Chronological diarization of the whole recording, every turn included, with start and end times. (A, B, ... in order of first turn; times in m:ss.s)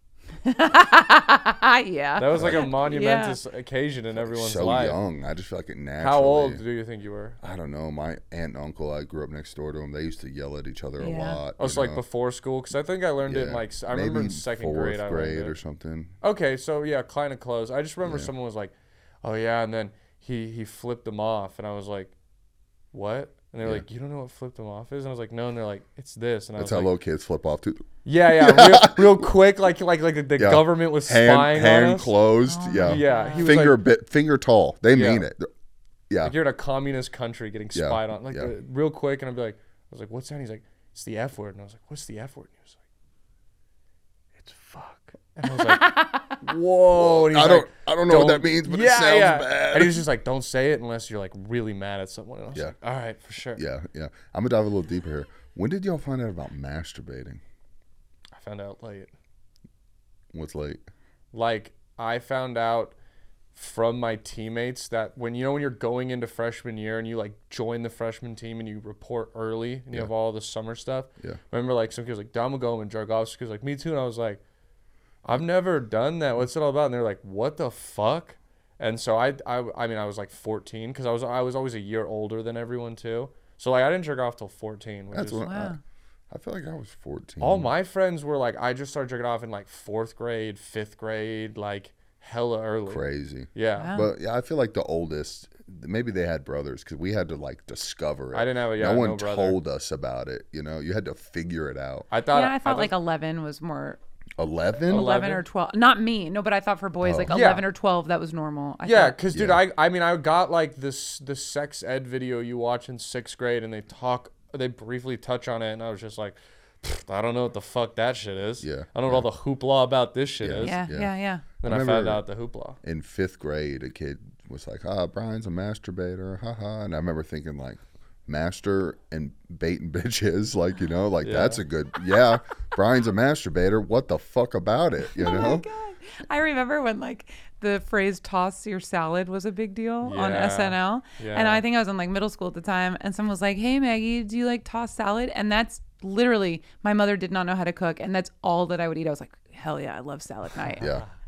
0:00.4-0:03.4 A
0:02.2-0:05.0 B
0:02.3-0:02.6 C
0:04.2-0:06.6 C
0:06.0-0:07.4 B
0:07.4-0:12.0 C
0:11.0-0:11.4 A
0:11.6-0:15.6 B
0:13.3-0:16.1 C
0:16.2-0:22.1 B
0:18.0-0:18.3 C
0:22.9-0:26.9 B
0:26.6-0:29.3 C
0:28.0-0:32.1 B
0:30.4-0:35.5 C
0:32.4-0:33.6 A
0:32.8-0:33.8 B
0:34.9-0:35.2 B
0:36.1-0:36.3 C
0:36.2-0:42.8 B
0:37.7-0:38.5 C
0:44.4-0:53.6 B
0:45.5-0:46.4 A
0:46.9-0:50.0 C
0:53.5-0:57.4 C
0:58.3-0:59.1 B
1:00.3-1:00.8 C
1:01.3-1:02.9 B
1:03.5-1:14.4 B
1:15.2-1:25.4 B
1:25.1-1:25.7 C
1:25.4-1:25.8 A
1:26.3-1:27.7 C
1:27.4-1:33.0 B
1:32.9-1:42.1 C
1:33.5-1:33.9 B
1:33.8-1:34.1 A
1:38.3-1:39.6 B
1:42.1-1:42.9 B
1:42.3-1:44.0 A
1:44.4-1:45.0 C
1:44.9-1:45.4 B
1:44.9-1:49.2 A
1:47.0-1:47.3 C
1:47.3-1:47.6 B
1:48.8-2:00.8 B
1:49.3-1:49.6 C
1:58.6-1:59.3 C
2:00.4-2:02.2 C
2:00.6-2:01.4 A
2:01.6-2:02.8 B
2:02.8-2:15.7 C
2:11.2-2:11.6 B
2:15.1-2:30.8 A
2:20.0-2:21.6 B
2:30.8-2:31.1 B